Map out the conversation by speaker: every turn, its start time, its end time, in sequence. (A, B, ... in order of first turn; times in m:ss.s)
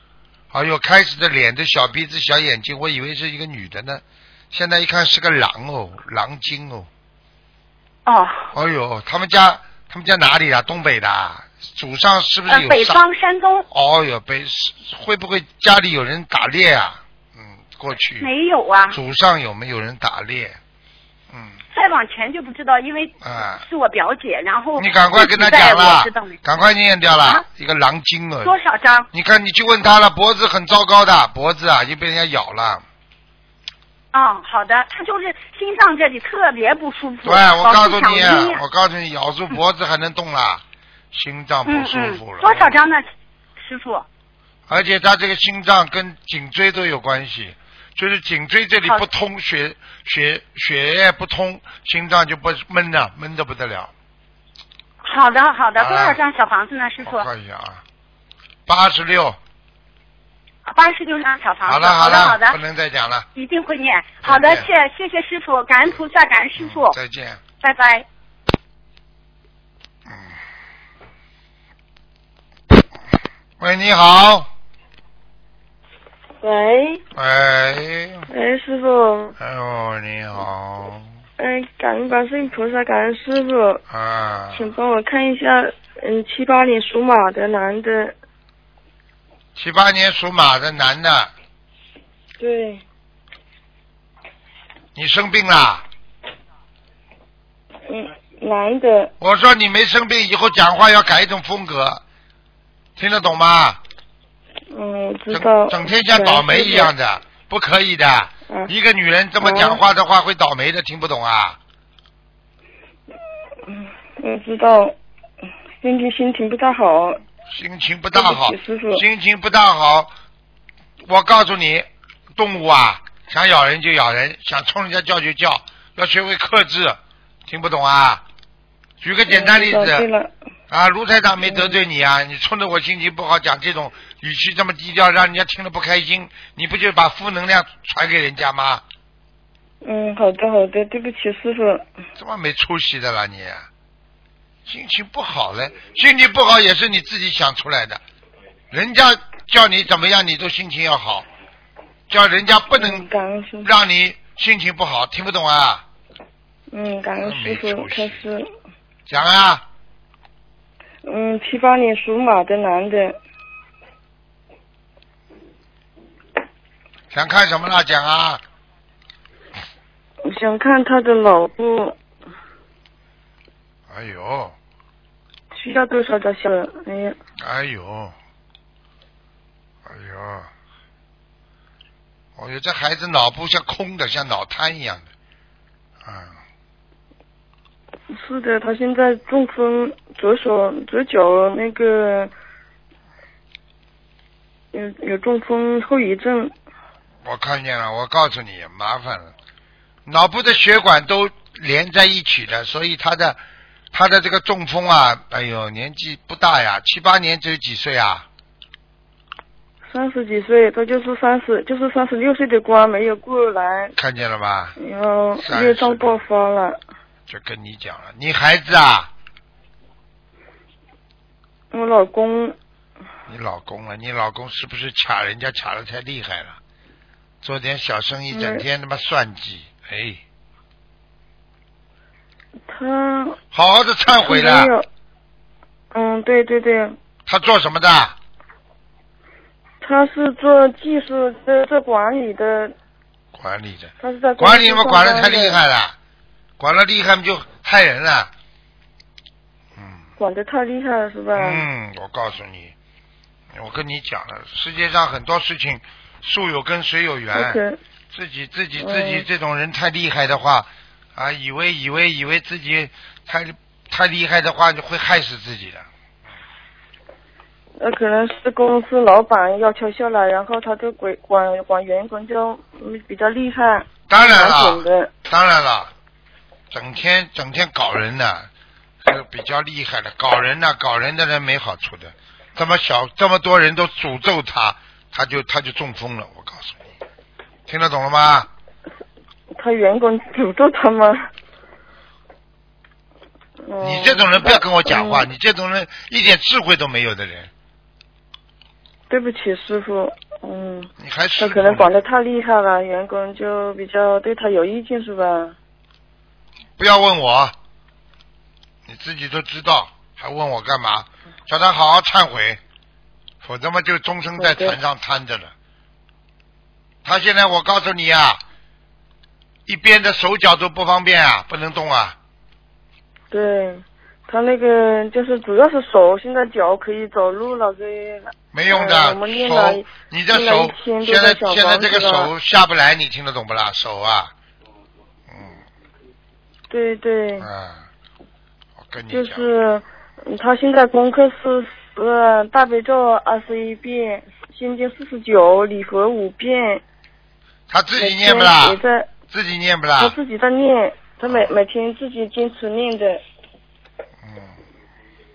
0:00.5-0:06.9 A
0:08.0-0:08.5 B
0:08.5-0:13.0 A
0:12.5-0:13.6 B
0:13.7-0:18.3 A
0:18.2-0:19.0 B
0:18.9-0:20.6 A
0:21.3-0:21.6 A
0:21.7-0:26.4 B
0:23.2-0:23.6 A
0:24.8-0:28.5 A
0:28.4-0:29.1 B
0:29.1-0:32.8 A
0:34.1-0:38.6 B
0:37.2-0:42.7 A
0:41.7-0:43.0 B
0:43.6-0:44.0 B
0:44.7-0:53.9 A
0:55.0-0:57.3 B
0:55.8-0:56.2 A
0:57.0-0:57.8 A
0:58.7-0:59.4 A
1:00.6-1:02.6 B
1:01.6-1:03.2 A
1:03.3-1:07.0 B
1:04.2-1:04.7 A
1:06.6-1:07.4 A
1:07.6-1:08.0 B
1:10.1-1:10.4 A
1:13.6-1:14.5 A
1:16.4-1:17.0 C
1:17.1-1:18.3 A
1:18.3-1:19.3 C
1:19.4-1:21.1 A
1:21.4-1:23.8 C
1:23.9-1:24.7 A
1:24.5-1:28.2 C
1:29.5-1:31.3 A
1:32.4-1:32.8 C
1:34.9-1:35.8 A
1:37.9-1:39.1 C
1:39.2-1:42.0 A
1:43.0-1:43.8 A
1:44.7-1:46.9 C
1:45.3-1:51.6 A
1:49.4-1:49.8 C
1:53.7-1:55.0 C
1:55.8-1:57.2 C
1:57.5-2:00.1 A
1:58.1-1:59.0 C
2:01.0-2:08.2 A
2:09.0-2:10.1 A
2:09.3-2:10.3 C
2:10.7-2:18.8 A
2:11.4-2:11.8 C
2:19.8-2:21.9 C
2:22.2-2:23.7 A
2:24.6-2:28.0 A
2:28.7-2:31.2 A
2:32.1-2:33.1 A
2:32.7-2:33.7 C
2:33.6-2:35.8 A
2:36.7-2:38.5 C
2:37.2-2:38.2 A
2:39.1-2:39.6 A
2:41.0-2:43.2 C
2:47.1-2:48.4 A
2:50.2-2:52.0 C
2:53.9-2:54.6 A
2:55.5-2:57.2 C
2:57.4-2:58.1 A
2:59.8-3:00.5 A
3:02.4-3:05.1 A
3:06.0-3:06.4 A
3:08.1-3:12.3 C
3:14.7-3:16.5 C
3:17.2-3:19.3 A
3:20.0-3:23.4 A
3:23.9-3:28.2 A
3:29.9-3:33.9 C
3:34.0-3:34.8 A
3:34.8-3:36.8 C
3:35.4-3:36.2 A
3:37.3-3:39.1 A
3:41.7-3:42.6 C
3:43.3-3:46.6 A
3:47.4-3:50.2 A
3:48.3-3:48.6 C
3:52.7-3:53.4 C
3:53.5-3:54.7 A
3:54.2-3:54.9 C
3:55.9-3:57.0 C
3:57.2-3:58.2 A
3:59.8-4:02.7 C
4:03.3-4:05.9 A
4:04.0-4:05.6 C
4:06.6-4:08.3 A
4:09.8-4:10.0 A
4:10.2-4:11.6 C
4:11.3-4:12.7 A
4:13.5-4:17.6 A
4:17.3-4:17.8 C
4:18.1-4:25.9 A
4:18.8-4:19.2 C
4:27.8-4:35.1 C
4:34.1-4:35.9 A
4:36.7-4:38.5 A
4:39.0-4:46.8 A
4:47.7-4:48.5 A
4:49.5-4:51.3 C
4:53.6-4:55.3 C
4:53.8-4:57.5 A
4:59.1-5:05.5 C
5:01.0-5:01.9 A
5:06.8-5:07.5 A
5:08.9-5:12.6 A
5:13.4-5:15.5 A
5:14.4-5:14.8 C
5:17.0-5:18.4 A
5:19.6-5:22.2 A
5:23.3-5:32.3 C
5:28.5-5:34.3 A
5:35.3-5:35.6 A
5:36.7-5:37.5 C
5:37.4-5:37.9 A
5:38.8-5:39.5 A
5:39.1-5:46.8 C
5:47.7-5:50.2 A
5:48.0-5:49.1 C
5:50.0-5:53.2 C
5:51.3-5:51.5 A
5:54.2-5:54.6 A